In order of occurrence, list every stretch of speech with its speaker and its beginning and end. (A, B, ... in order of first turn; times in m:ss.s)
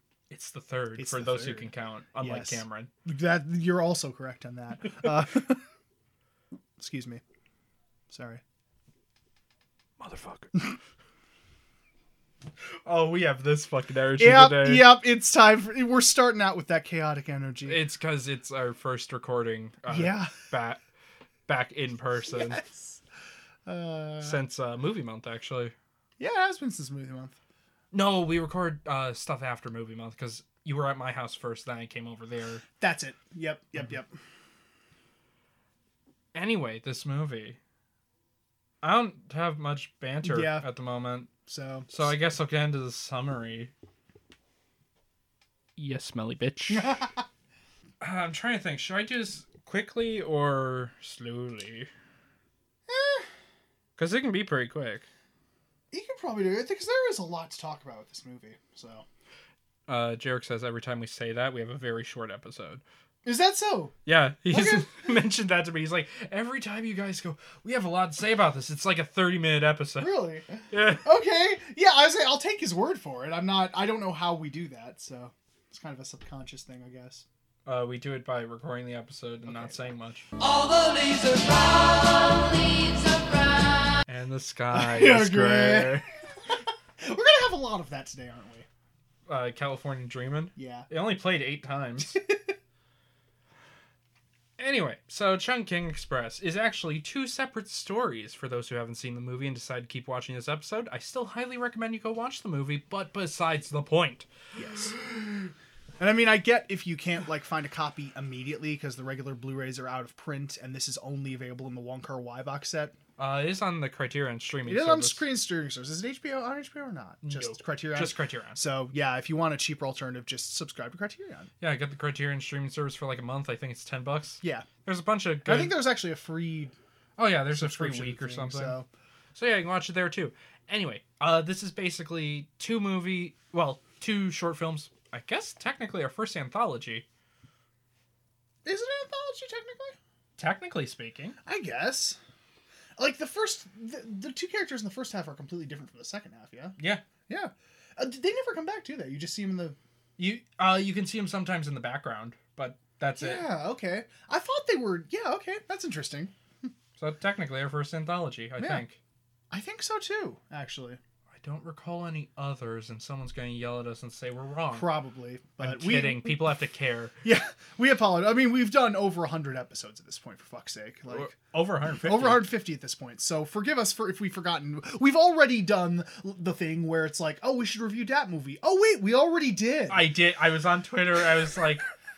0:00.3-0:02.9 A
0:01.0-0:05.6 B
0:06.8-0:07.2 B
0:08.1-0:08.4 B
0:10.0-0:10.6 A
0:12.8-0:14.9 A
0:14.2-0:17.8 B
0:17.6-0:20.8 A
0:19.9-0:20.3 B
0:21.5-0:22.6 A
0:22.2-0:23.0 B
0:23.7-0:24.4 B
0:24.2-0:25.7 A
0:26.2-0:27.4 B
0:27.9-0:32.6 A
0:32.8-0:34.1 B
0:36.3-0:37.6 A
0:38.8-0:41.3 A
0:40.2-0:40.7 B
0:41.5-0:41.9 B
0:41.9-0:43.7 A
0:45.8-0:47.0 A
0:46.7-0:47.2 B
0:48.0-0:51.9 A
0:52.9-0:53.3 B
0:54.0-0:55.1 A
0:55.9-0:59.0 B
0:59.9-1:02.8 A
1:03.2-1:03.9 B
1:04.1-1:10.1 A
1:04.5-1:05.1 B
1:10.0-1:17.3 B
1:10.7-1:11.1 A
1:17.7-1:20.3 A
1:19.5-1:19.9 B
1:20.4-1:24.0 C
1:24.1-1:26.1 A
1:24.7-1:28.7 B
1:29.3-1:32.2 A
1:30.6-1:30.9 B
1:32.0-1:32.6 B
1:34.6-1:44.3 A
1:44.6-1:45.0 B
1:46.0-1:53.0 B
1:53.2-1:55.2 A
1:54.7-2:01.5 B
1:57.2-1:58.6 A
2:01.6-2:05.8 A
2:04.4-2:04.7 B
2:05.4-2:06.7 B
2:07.2-2:08.8 A
2:07.5-2:08.9 B
2:09.4-2:17.0 A
2:18.6-2:20.0 B
2:20.4-2:21.4 A
2:21.4-2:22.2 B
2:23.0-2:26.8 B
2:26.8-2:27.0 A
2:27.3-2:29.8 B
2:30.2-2:33.5 A
2:33.2-2:36.4 B
2:37.0-2:39.0 A
2:38.6-2:38.8 B
2:39.5-2:41.0 B
2:41.4-2:44.9 A
2:44.7-2:46.4 B
2:45.6-2:47.2 A
2:47.2-2:51.4 B
2:51.1-2:52.4 A
2:52.0-3:00.1 B
2:59.9-3:01.9 A